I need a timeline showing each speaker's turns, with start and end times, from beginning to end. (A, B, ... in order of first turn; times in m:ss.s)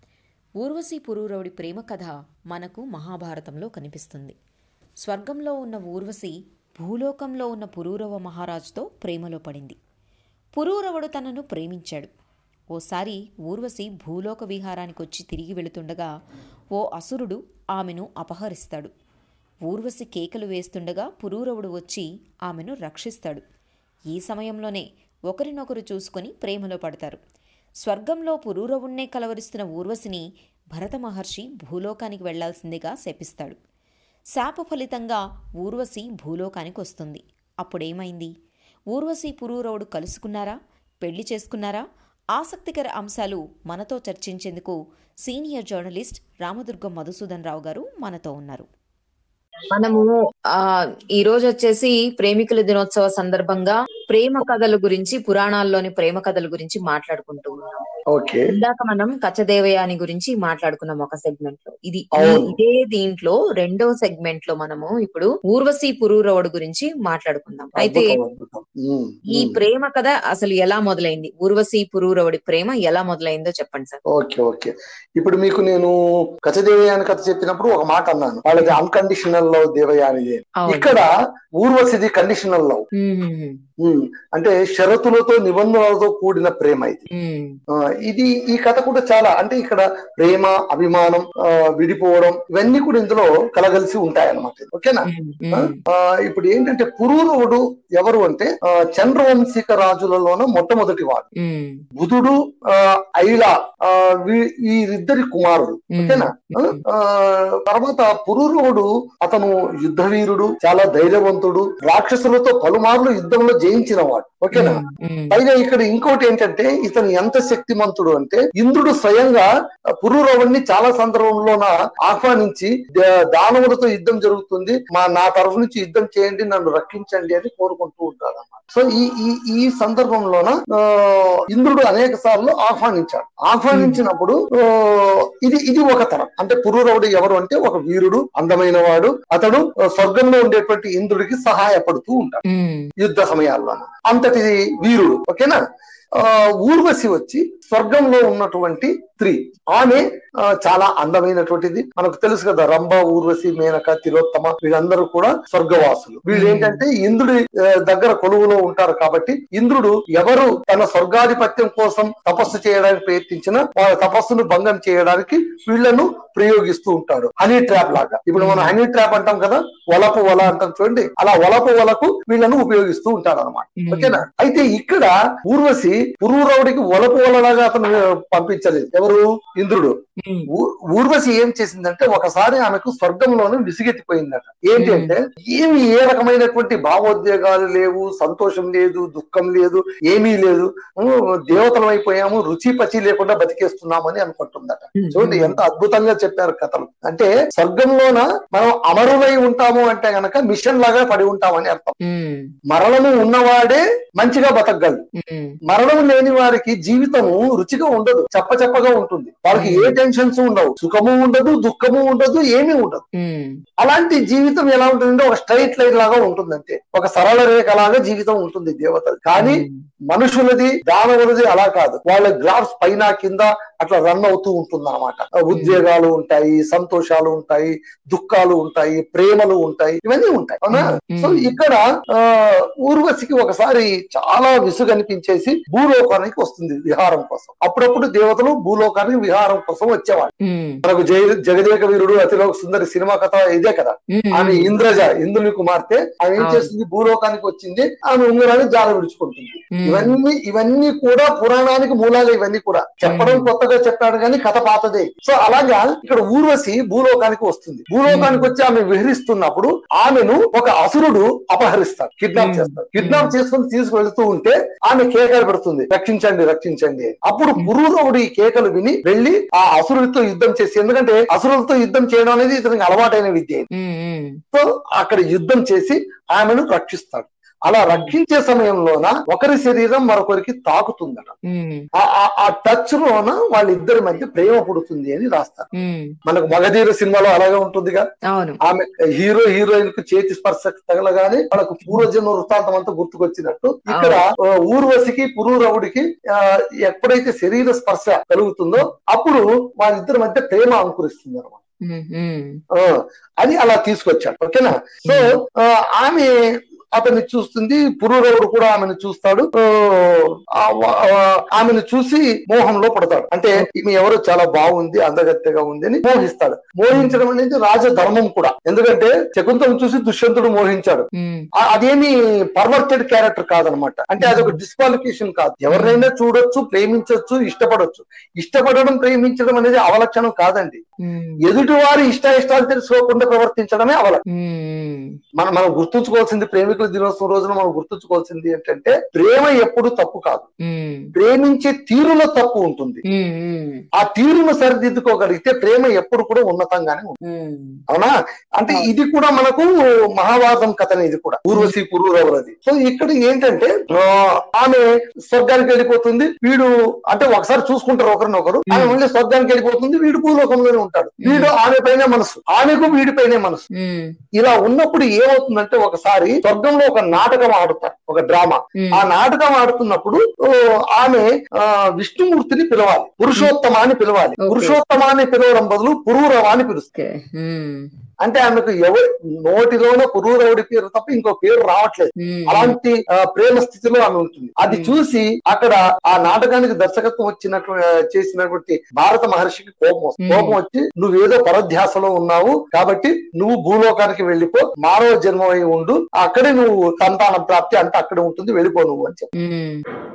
0:00.6-0:04.4 A
0:05.0-0:09.8 A
0:10.6-0:12.1 A
0:12.7-0:16.1 A
0:16.8-0:18.9 A
0:19.7-0:23.4 A
0:24.1-0:27.2 A
0:27.8-0:33.6 A
0:34.4-0:38.3 A
0:38.9-0:41.8 A
0:42.4-0:48.7 A
0:49.7-0:57.8 B
0:58.1-0:58.5 C
0:58.5-1:08.2 B
1:02.2-1:02.5 C
1:07.8-1:09.6 C
1:09.3-1:14.0 B
1:14.1-1:22.9 C
1:20.6-1:21.0 B
1:23.0-1:23.6 B
1:23.8-1:27.0 C
1:27.1-1:27.6 B
1:28.0-1:41.3 C
1:35.1-1:35.8 B
1:41.4-1:41.8 B
1:42.0-1:59.5 C
1:46.0-1:46.8 B
1:54.6-1:55.4 B
2:00.0-2:22.4 C
2:13.7-2:14.0 B
2:22.5-2:22.9 B
2:23.0-2:25.6 C
2:26.2-2:30.0 C
2:30.6-2:59.9 C
2:36.3-2:36.8 B
2:48.4-2:48.8 B
2:53.8-2:54.2 B
3:00.2-3:00.5 B
3:00.5-3:22.0 C
3:04.8-3:05.2 B
3:15.0-3:15.6 B
3:22.0-3:22.5 B
3:22.7-3:25.0 C
3:25.2-3:25.6 B
3:25.7-3:33.0 C
3:29.5-3:30.0 B
3:33.2-3:33.6 B
3:33.8-4:00.3 C
3:39.4-3:39.7 B
3:45.5-3:45.8 B
3:50.7-3:51.6 B
4:00.4-4:00.8 B
4:00.8-4:33.7 C
4:04.1-4:04.7 B
4:06.4-4:06.7 B
4:09.8-4:10.2 B
4:13.0-4:13.5 B
4:18.1-4:18.5 B
4:22.4-4:23.4 B
4:33.7-4:34.4 B
4:34.5-4:41.3 C
4:41.5-4:41.9 B
4:42.0-4:45.7 C
4:45.7-4:46.2 B
4:46.3-4:48.0 C
4:48.3-4:48.6 B
4:48.6-5:01.6 C
4:53.9-4:54.2 B
5:01.8-5:02.6 B
5:02.8-5:06.4 C
5:05.1-5:05.4 B
5:07.0-5:21.1 C
5:16.9-5:17.2 B
5:21.2-5:21.5 B
5:21.6-5:30.8 C
5:24.2-5:24.6 B
5:25.7-5:26.1 B
5:31.0-5:31.4 B
5:31.4-5:34.2 C
5:34.3-5:35.1 B
5:35.4-5:40.5 C
5:40.6-5:41.1 B
5:41.2-5:43.0 C
5:43.1-5:43.8 B
5:44.0-5:47.2 C
5:47.2-5:47.8 B
5:47.9-6:03.7 C
5:58.7-5:59.0 B
6:01.2-6:01.5 B
6:03.8-6:04.2 B
6:04.4-6:16.9 C
6:08.8-6:09.0 B
6:14.4-6:14.8 B
6:17.0-6:17.9 B
6:18.2-6:39.3 C
6:22.2-6:22.8 B
6:24.7-6:25.0 B
6:30.2-6:30.6 B
6:39.4-6:39.8 B